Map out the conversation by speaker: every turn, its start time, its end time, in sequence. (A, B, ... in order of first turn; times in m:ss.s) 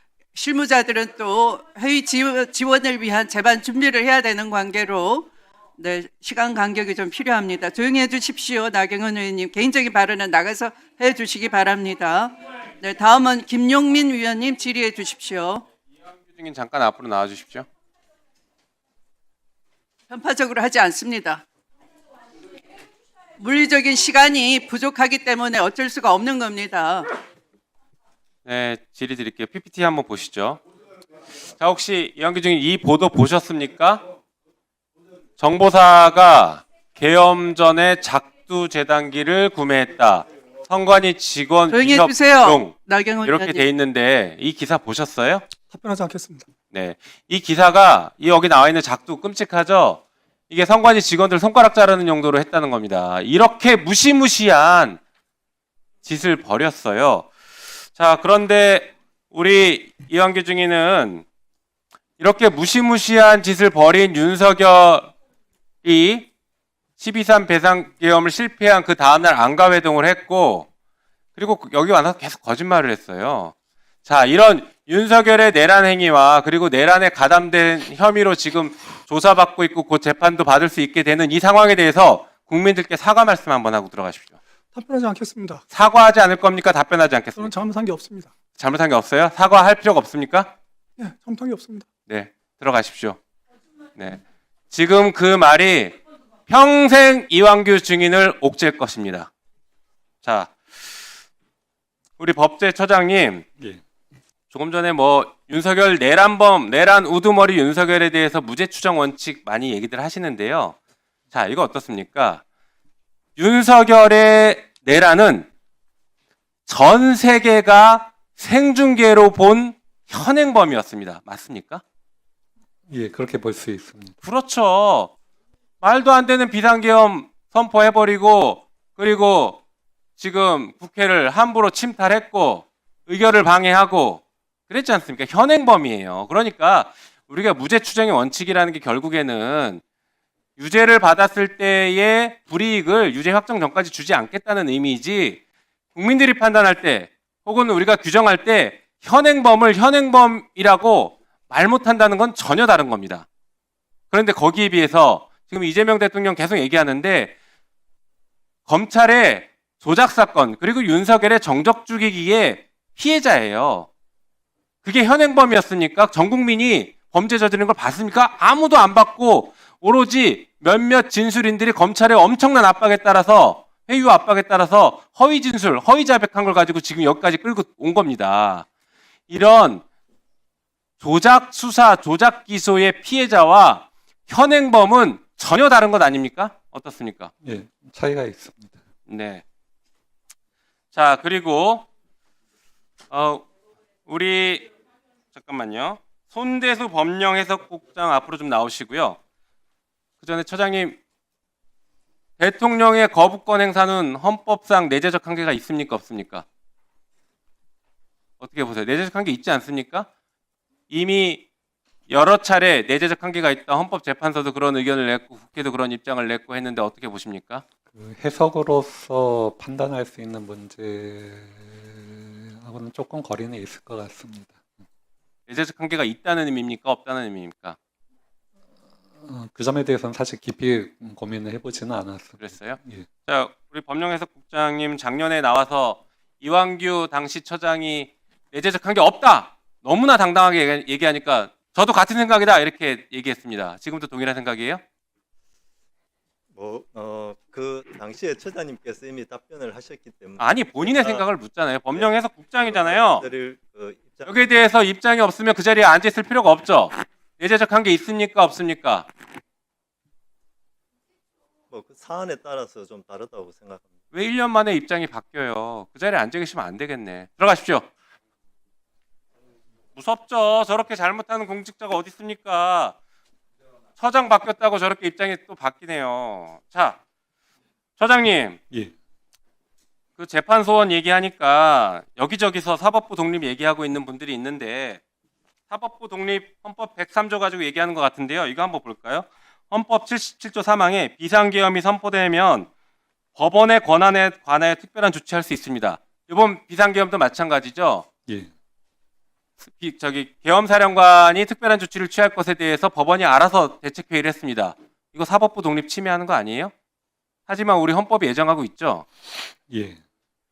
0:00.3-0:15.6 A
0:16.3-0:17.7 B
0:20.1-0:21.4 A
0:23.4-0:27.1 A
0:28.4-0:30.6 B
0:31.6-0:34.0 B
0:35.4-0:45.4 B
0:41.7-0:43.6 A
0:45.7-0:46.5 C
0:46.7-0:55.0 B
0:56.0-0:57.3 B
0:57.9-1:01.2 B
1:02.2-1:05.1 B
1:05.8-1:06.3 B
1:07.0-1:10.7 B
1:11.4-1:13.5 B
1:14.0-1:24.3 B
1:24.7-1:25.6 C
1:25.7-1:27.6 B
1:27.3-1:28.3 C
1:28.5-1:30.5 B
1:31.0-1:31.9 C
1:32.1-1:33.2 B
1:34.0-1:34.2 B
1:34.7-1:36.0 B
1:36.5-1:39.3 B
1:40.2-1:40.5 B
1:42.2-1:43.4 B
1:44.5-1:50.8 B
1:51.3-1:52.4 B
1:53.4-1:55.5 B
1:56.7-2:01.8 B
2:02.9-2:04.1 D
2:04.2-2:05.1 B
2:05.8-2:09.6 B
2:10.2-2:19.8 B
2:20.6-2:25.4 B
2:25.9-2:33.2 B
2:34.1-2:37.3 B
2:38.7-2:43.9 B
2:44.8-2:58.7 B
2:59.3-2:59.8 B
3:01.0-3:07.3 B
3:07.4-3:08.8 D
3:09.1-3:09.4 B
3:10.9-3:11.8 B
3:13.1-3:13.4 B
3:14.1-3:14.7 B
3:15.3-3:19.2 B
3:20.2-3:21.0 B
3:22.4-3:26.4 B
3:28.4-3:30.1 B
3:30.9-3:31.4 B
3:32.1-3:37.6 B
3:37.9-3:44.6 D
3:45.5-3:47.8 B
3:49.2-3:53.1 D
3:52.4-4:04.8 B
4:06.5-4:11.2 E
4:10.4-4:13.3 B
4:12.6-4:14.3 E
4:14.2-4:19.1 B
4:21.7-4:23.9 E
4:24.1-4:27.9 B
4:30.0-4:32.9 B
4:34.0-4:37.0 B
4:38.0-4:38.6 B
4:40.2-4:45.0 B
4:45.7-4:52.7 B
4:53.4-4:58.1 B
4:59.7-5:06.7 B
5:07.5-5:09.1 B
5:09.7-5:10.0 D